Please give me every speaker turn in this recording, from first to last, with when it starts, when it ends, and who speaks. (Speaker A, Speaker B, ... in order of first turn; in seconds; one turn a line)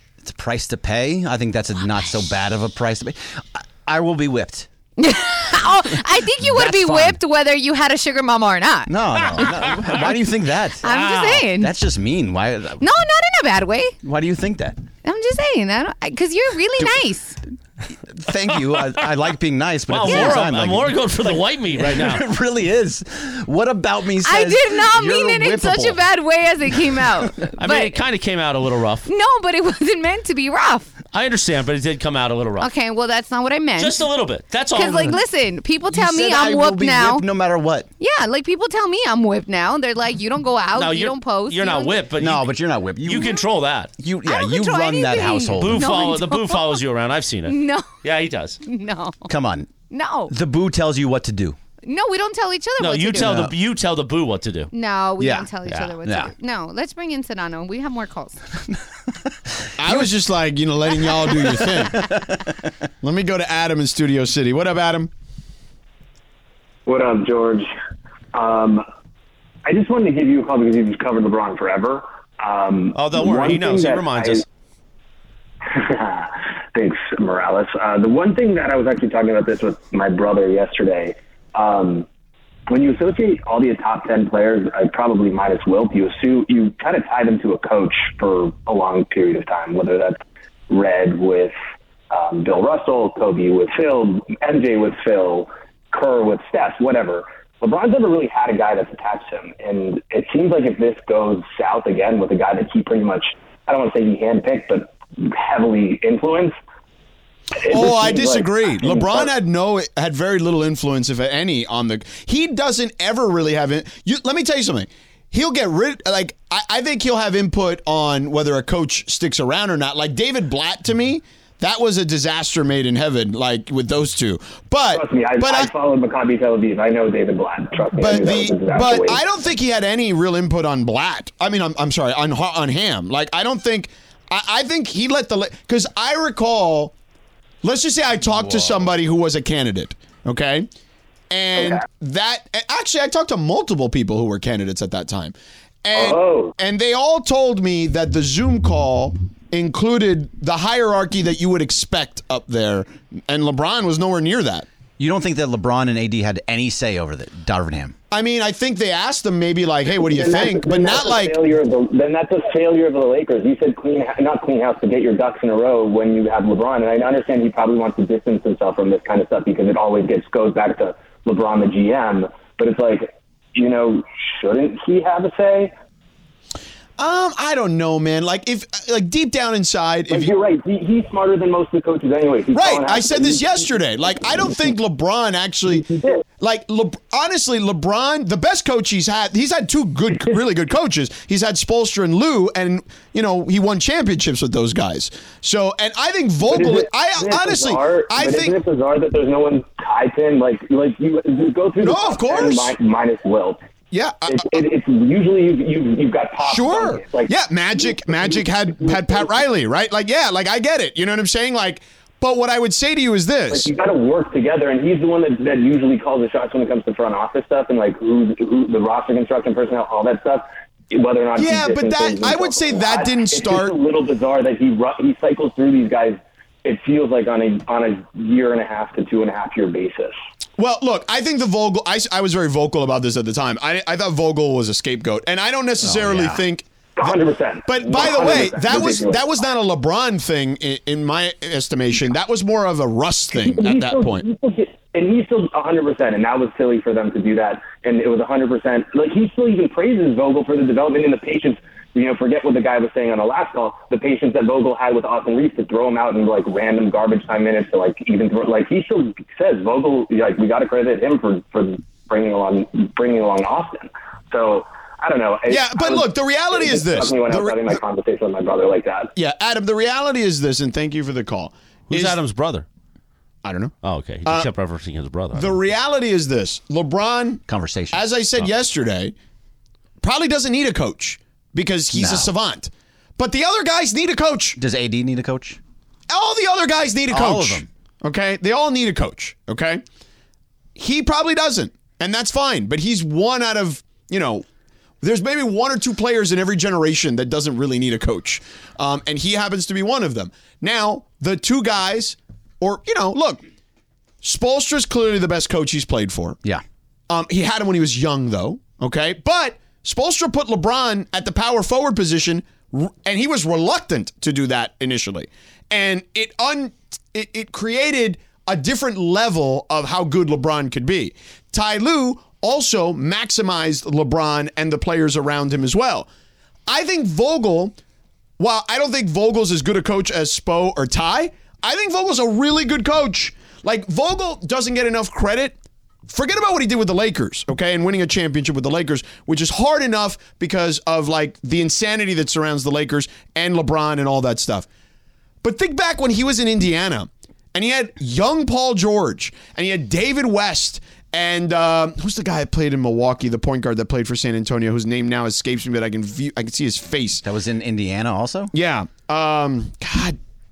Speaker A: 0.2-4.7
Speaker B: 5.0-10.0
Speaker A: 6.4-7.2
Speaker A: 8.9-12.8
Speaker B: 10.8-11.7
Speaker C: 11.1-11.4
Speaker B: 12.8-14.0
Speaker A: 14.0-14.8
Speaker B: 15.0-17.4
Speaker A: 18.1-26.0
Speaker C: 19.9-22.2
Speaker B: 20.1-20.4
Speaker B: 24.2-28.0
Speaker A: 26.7-27.4
Speaker C: 27.6-29.1
Speaker B: 29.1-30.9
Speaker C: 31.1-32.7
Speaker B: 32.6-34.0
Speaker C: 33.8-35.2
Speaker B: 34.7-37.3
Speaker A: 35.9-37.9
Speaker B: 38.0-42.0
Speaker C: 40.7-42.4
Speaker A: 42.2-43.4
Speaker C: 43.0-43.9
Speaker A: 44.0-46.1
Speaker B: 44.2-46.8
Speaker C: 45.6-48.6
Speaker B: 47.5-47.9
Speaker B: 48.6-49.3
Speaker A: 49.3-49.7
Speaker B: 49.9-50.3
Speaker A: 50.3-51.5
Speaker B: 51.8-53.4
Speaker C: 52.8-54.7
Speaker A: 53.2-53.5
Speaker B: 54.7-58.4
Speaker A: 55.2-56.3
Speaker C: 55.6-55.9
Speaker D: 59.8-62.1
Speaker A: 59.8-60.1
Speaker A: 61.3-62.5
Speaker D: 63.0-65.1
Speaker E: 66.8-67.7
Speaker E: 68.3-68.8
Speaker E: 69.6-74.4
Speaker C: 72.9-74.4
Speaker E: 75.7-82.0
Speaker E: 82.7-91.5
Speaker E: 92.1-106.5
Speaker E: 107.6-109.3
Speaker D: 107.6-125.7
Speaker E: 124.9-129.2
Speaker D: 127.9-136.9
Speaker D: 137.6-140.7
Speaker D: 141.3-154.7
Speaker E: 141.6-141.8
Speaker E: 145.9-146.5
Speaker A: 155.0-157.9
Speaker D: 158.1-161.4
Speaker E: 160.0-175.7
Speaker D: 177.0-180.3
Speaker E: 180.1-183.4
Speaker D: 182.5-198.6
Speaker E: 185.8-186.2
Speaker E: 196.5-203.6
Speaker D: 201.8-202.7
Speaker D: 203.9-204.6
Speaker E: 204.3-207.3
Speaker D: 206.4-213.7
Speaker E: 207.8-209.2
Speaker E: 213.5-230.2
Speaker D: 221.3-223.7
Speaker D: 230.6-237.1
Speaker A: 235.8-236.4
Speaker E: 237.0-239.2
Speaker D: 237.6-244.2
Speaker E: 243.3-269.1
Speaker D: 265.5-267.8
Speaker D: 269.1-272.2
Speaker C: 271.9-272.6
Speaker D: 273.4-273.7
Speaker C: 273.8-275.6
Speaker D: 275.3-279.1
Speaker A: 277.5-278.0
Speaker D: 280.0-284.6
Speaker A: 281.9-282.3
Speaker A: 284.6-285.6
Speaker D: 286.1-289.8
Speaker A: 287.1-287.7
Speaker D: 290.8-294.4
Speaker D: 295.0-303.4
Speaker D: 304.2-306.4
Speaker D: 307.1-326.1
Speaker D: 326.7-327.7
Speaker D: 328.4-344.7
Speaker D: 345.4-357.2
Speaker A: 357.2-358.5
Speaker D: 358.5-360.2